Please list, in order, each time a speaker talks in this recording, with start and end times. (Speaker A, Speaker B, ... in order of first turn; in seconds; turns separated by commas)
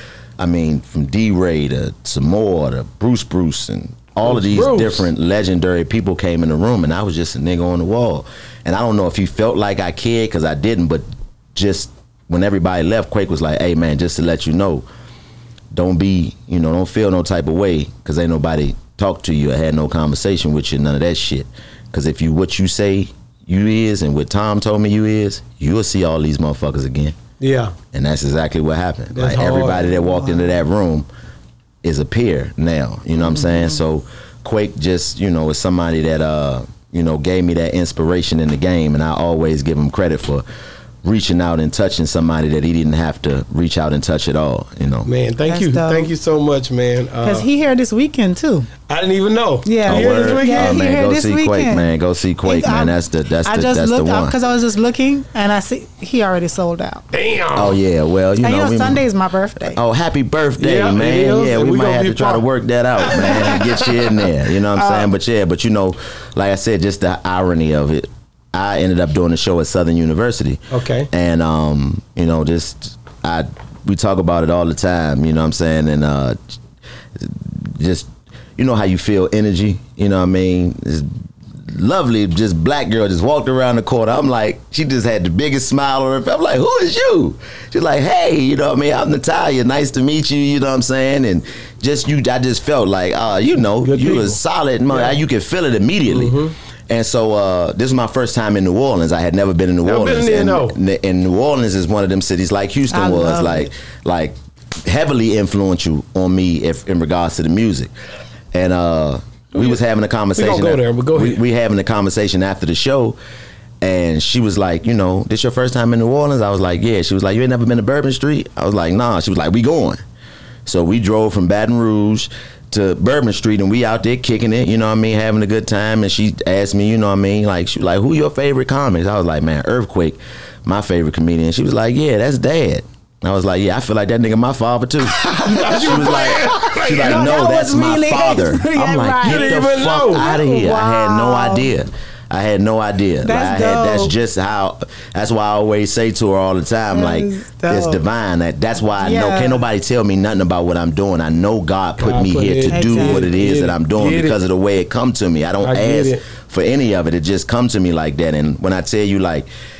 Speaker A: 0.4-14.8, Speaker B: 4.2-5.1, Speaker A: 15.7-27.2, Speaker B: 27.4-27.8, Speaker A: 27.9-31.1, Speaker B: 29.1-30.0, Speaker A: 31.8-40.4, Speaker C: 33.3-33.7, Speaker A: 41.0-45.1, Speaker B: 45.0-47.5, Speaker C: 45.5-46.1, Speaker C: 47.2-48.7, Speaker B: 48.9-50.8, Speaker C: 49.6-51.9, Speaker A: 49.9-54.4, Speaker C: 52.4-57.0, Speaker B: 57.1-57.8, Speaker A: 57.5-59.0, Speaker C: 58.4-59.8, Speaker A: 59.7-76.4, Speaker B: 60.6-62.5, Speaker B: 63.0-63.9, Speaker B: 70.7-71.1, Speaker A: 77.2-81.1, Speaker A: 81.7-96.4, Speaker B: 93.8-94.4, Speaker B: 94.9-95.2, Speaker B: 96.1-96.5, Speaker A: 96.9-107.9, Speaker B: 99.8-100.8, Speaker C: 102.9-103.7, Speaker A: 108.5-113.2, Speaker B: 109.5-109.8, Speaker B: 110.3-111.4, Speaker A: 113.8-120.0, Speaker A: 120.7-159.5, Speaker B: 135.2-137.4, Speaker C: 135.4-141.7, Speaker B: 139.2-140.3, Speaker C: 143.2-144.1, Speaker C: 146.9-148.0, Speaker C: 148.9-149.6, Speaker B: 152.0-154.4, Speaker C: 152.7-153.3, Speaker B: 155.6-156.2